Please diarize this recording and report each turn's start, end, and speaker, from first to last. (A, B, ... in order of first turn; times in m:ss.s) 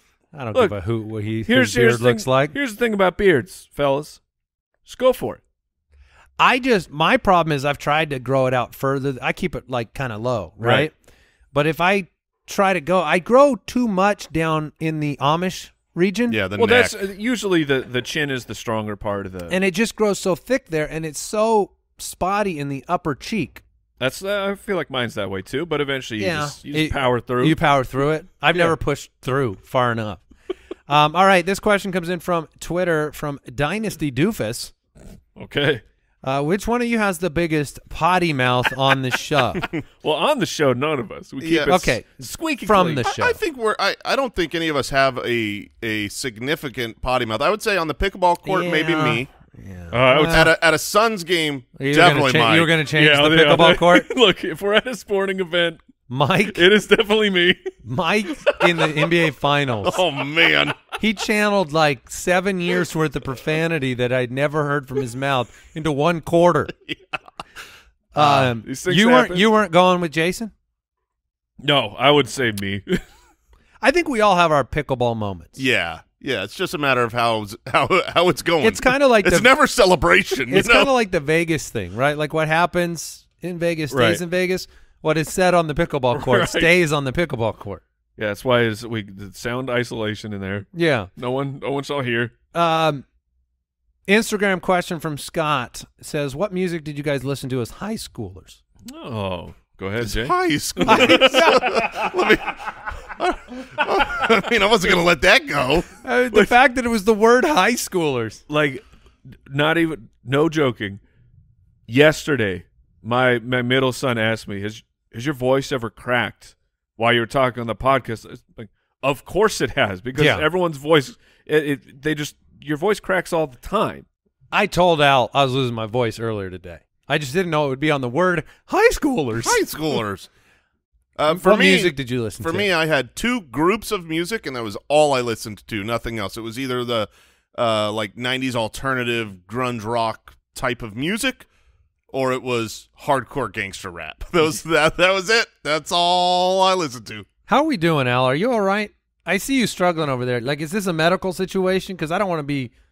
0:00.3-0:02.5 A
0:01.4-0:04.2 B
0:04.8-0:05.4 B
0:06.4-0:10.9 A
0:10.6-0:10.9 B
0:11.5-0:16.4 A
0:16.3-0:17.0 C
0:16.6-0:19.6 B
0:19.5-0:23.6 A
0:24.0-0:27.6 B
0:26.2-0:30.2 A
0:30.9-0:34.7 A
0:35.4-0:35.8 B
0:36.2-0:39.6 A
0:40.0-0:43.0 B
0:41.4-0:41.7 C
0:41.7-0:43.4 A
0:43.2-0:49.3 C
0:48.4-0:50.5 A
0:49.9-0:50.5 B
0:50.3-0:52.7 C
0:51.8-0:54.1 A
0:53.0-0:55.8 B
0:56.1-0:56.6 A
0:56.5-0:57.7 B
0:57.8-1:00.0 A
0:58.7-0:59.1 B
0:59.8-1:00.8 C
1:01.0-1:06.7 A
1:06.8-1:07.2 C
1:08.1-1:10.5 A
1:08.2-1:09.4 B
1:11.6-1:13.0 B
1:13.8-1:15.6 A
1:15.6-1:20.9 C
1:18.6-1:19.5 A
1:20.5-1:27.8 A
1:23.9-1:24.2 B
1:26.1-1:26.7 B
1:28.2-1:32.3 B
1:30.7-1:31.1 A
1:32.5-1:33.0 A
1:34.1-1:38.6 A
1:38.9-1:41.8 B
1:40.0-1:45.9 C
1:40.8-1:41.9 A
1:46.0-1:48.4 A
1:48.5-1:48.8 B
1:49.3-1:51.0 B
1:51.9-2:04.0 B
2:00.2-2:00.4 A
2:04.5-2:09.6 A
2:09.4-2:10.3 C
2:11.2-2:21.5 C
2:11.3-2:12.7 A
2:22.1-2:27.2 C
2:27.5-2:32.7 A